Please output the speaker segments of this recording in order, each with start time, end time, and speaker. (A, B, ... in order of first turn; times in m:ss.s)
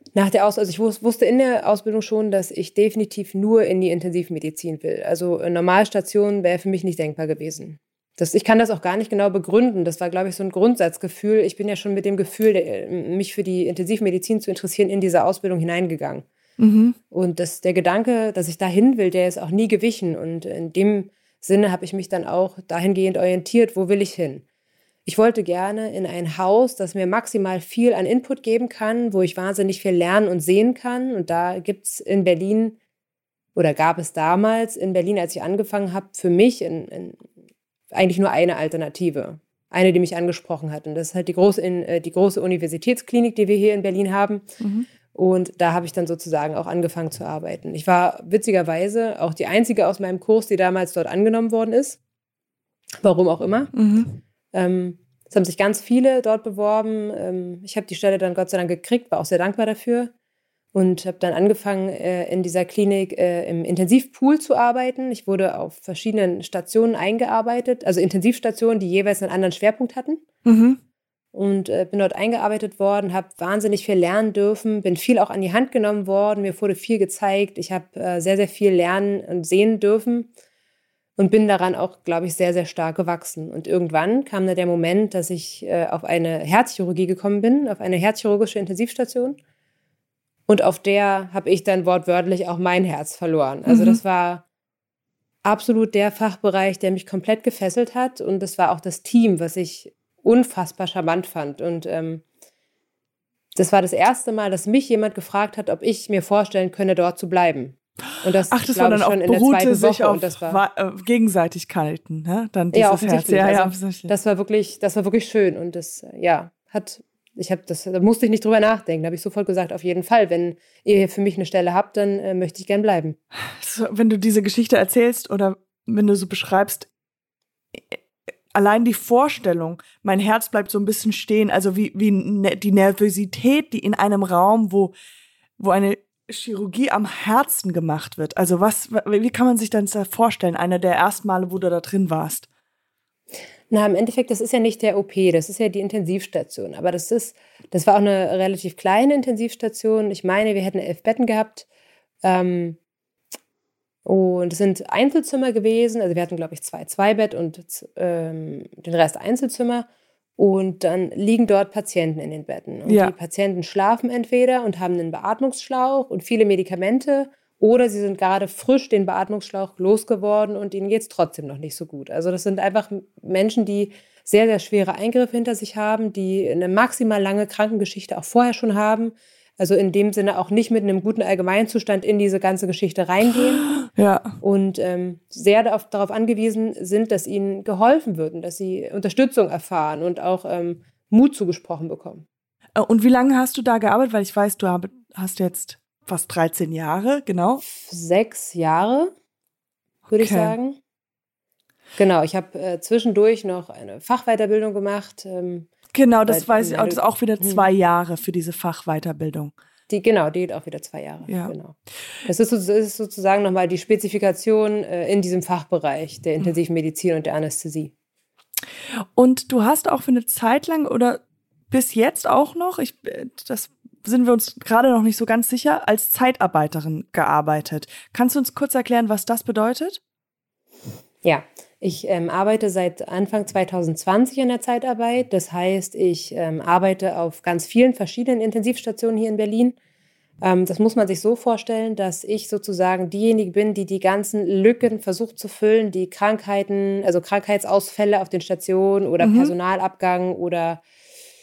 0:00.2-0:16.2 A
0:16.6-0:17.0 B
0:17.1-0:24.4 A
0:25.1-0:32.8 A
0:33.6-0:37.3 A
0:37.9-0:44.5 A
0:44.6-0:44.9 B
0:45.1-0:52.0 A
0:53.0-0:53.7 A
0:53.7-0:54.1 B
0:54.5-1:00.1 A
1:00.7-1:10.2 A
1:10.4-1:10.8 B
1:11.3-1:20.3 A
1:21.2-1:29.4 A
1:30.5-1:34.4 A
1:33.7-1:34.0 B
1:35.4-1:42.2 A
1:43.6-1:50.6 A
1:48.5-1:54.1 B
1:52.7-2:03.2 A
2:03.5-2:06.9 B
2:08.5-2:14.9 B
2:15.6-2:22.5 B
2:23.7-2:31.7 A
2:32.2-2:32.8 A
2:34.0-3:03.7 A
2:42.9-2:43.1 B
3:03.6-3:04.4 B
3:04.4-3:12.2 A
3:12.8-3:17.6 B
3:17.7-3:19.1 A
3:20.1-3:20.6 B
3:20.1-3:20.8 A
3:22.0-3:25.7 A
3:25.9-3:29.5 B
3:26.3-3:27.7 A
3:29.9-3:31.8 A
3:31.3-3:31.5 B
3:32.3-3:37.9 A
3:39.0-3:41.2 B
3:41.7-3:50.0 B
3:51.2-3:59.8 A
4:00.4-4:10.8 A
4:09.2-4:09.5 B